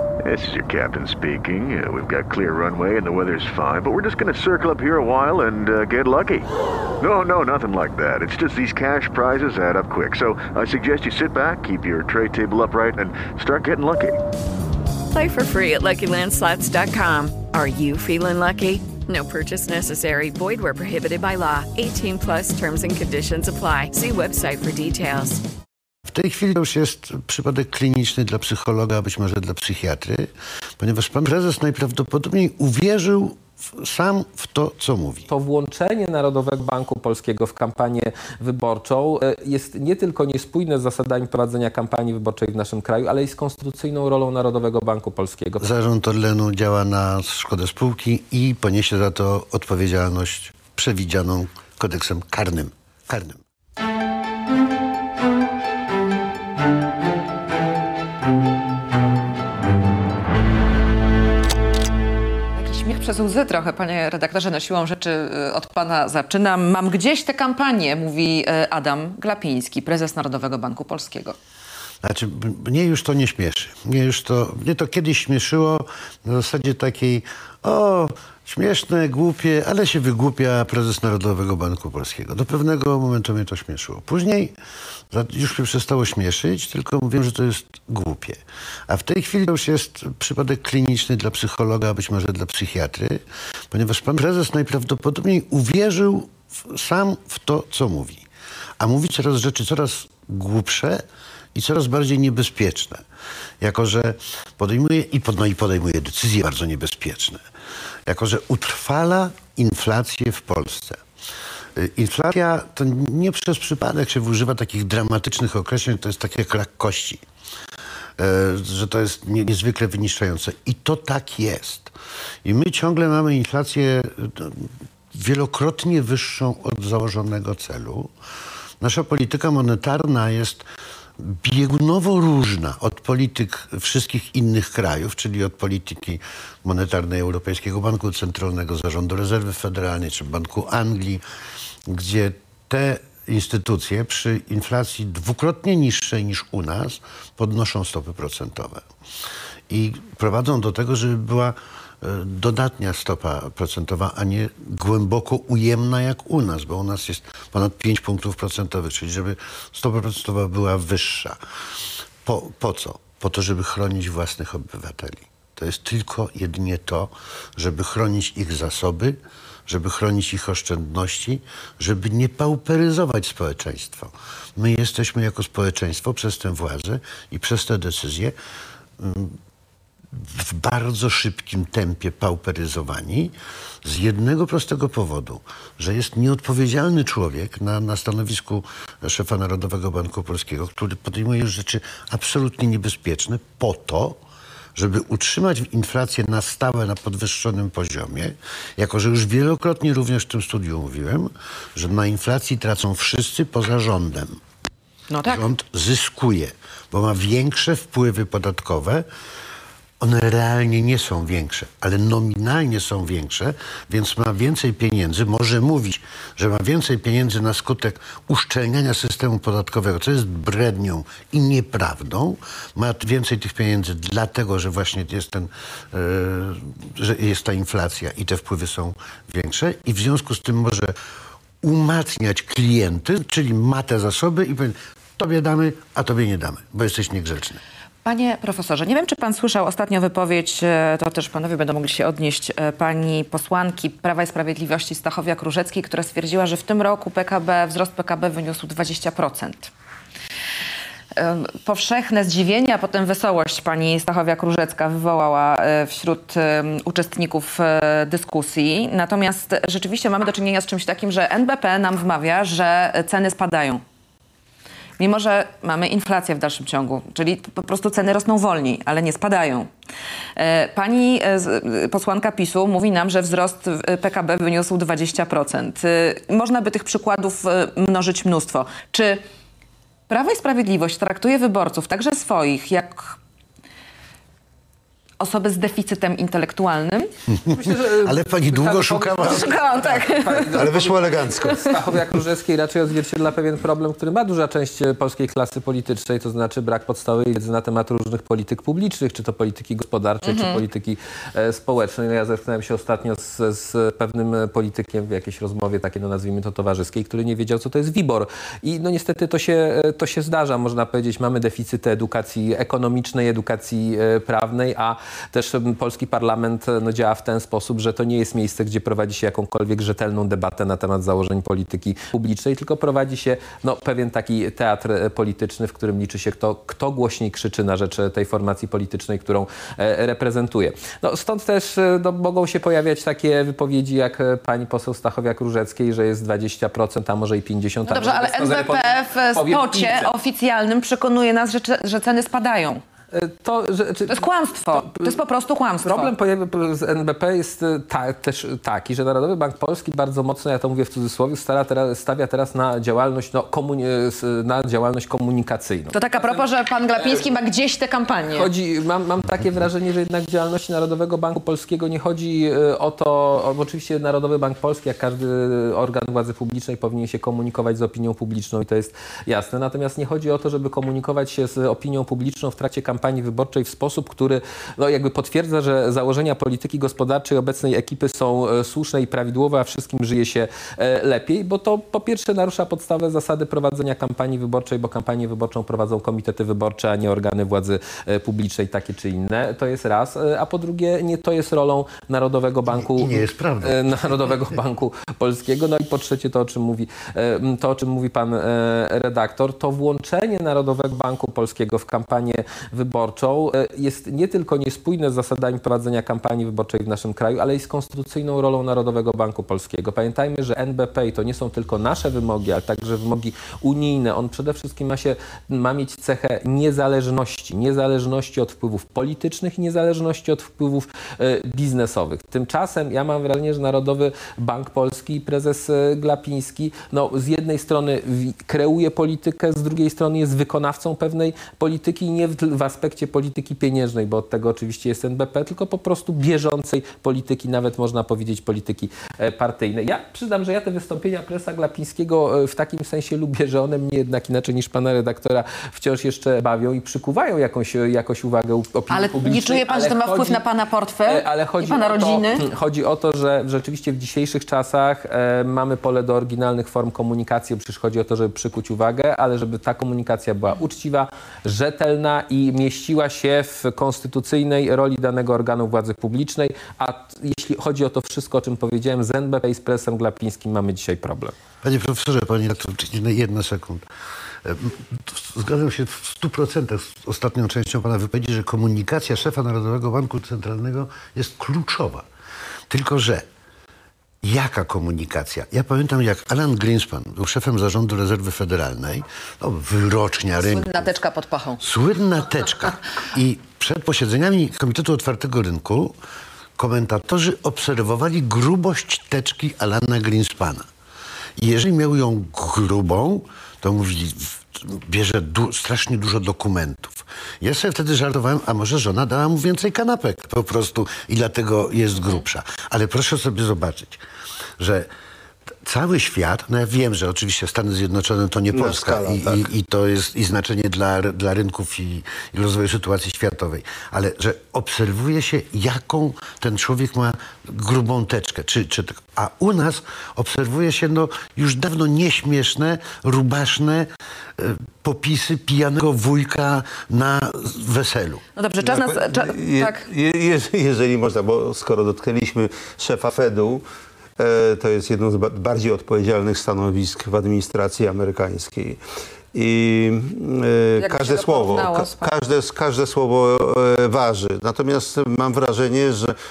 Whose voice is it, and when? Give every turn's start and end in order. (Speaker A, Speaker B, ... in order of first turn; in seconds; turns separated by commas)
Speaker A: 0.2-6.5, Speaker A: 7.0-14.2, Speaker B: 15.1-25.4, Speaker C: 26.1-35.3, Speaker D: 35.3-45.7, Speaker C: 45.6-53.4, Speaker E: 62.6-71.4, Speaker C: 72.0-84.6, Speaker C: 85.1-98.3, Speaker C: 98.8-101.0, Speaker C: 101.5-103.0, Speaker C: 103.6-107.4, Speaker C: 108.1-111.0, Speaker C: 111.8-117.2, Speaker C: 118.2-128.1, Speaker C: 128.8-130.7, Speaker C: 131.2-141.2, Speaker C: 141.9-148.8, Speaker C: 149.7-161.4, Speaker C: 162.2-178.4, Speaker C: 179.0-179.4, Speaker C: 180.1-194.2, Speaker C: 194.8-204.4, Speaker E: 205.1-205.4, Speaker C: 205.2-209.1, Speaker C: 210.0-230.9, Speaker C: 231.6-237.6, Speaker E: 238.0-249.7, Speaker E: 251.2-263.8, Speaker E: 265.0-269.7, Speaker E: 270.4-279.2, Speaker E: 280.1-283.2, Speaker E: 285.2-287.1, Speaker C: 287.3-290.0, Speaker D: 287.5-340.1, Speaker E: 289.4-290.6, Speaker F: 290.5-291.6, Speaker E: 291.5-291.8, Speaker E: 300.3-300.6, Speaker E: 337.9-342.8, Speaker D: 343.1-345.2, Speaker E: 344.1-346.1, Speaker D: 345.8-357.4, Speaker E: 355.9-358.5, Speaker D: 358.3-450.4, Speaker C: 392.7-394.4, Speaker E: 448.9-452.4, Speaker D: 451.1-471.4, Speaker C: 471.6-473.9, Speaker C: 474.4-482.0, Speaker C: 482.7-483.2, Speaker C: 484.2-490.9, Speaker E: 490.4-491.6, Speaker C: 491.6-496.0, Speaker C: 496.6-500.6, Speaker C: 501.4-514.0, Speaker C: 514.6-514.9, Speaker C: 515.6-538.2, Speaker F: 518.5-519.5, Speaker E: 538.4-539.8, Speaker F: 538.6-543.6, Speaker F: 544.2-548.8, Speaker F: 549.3-556.1, Speaker E: 550.8-552.1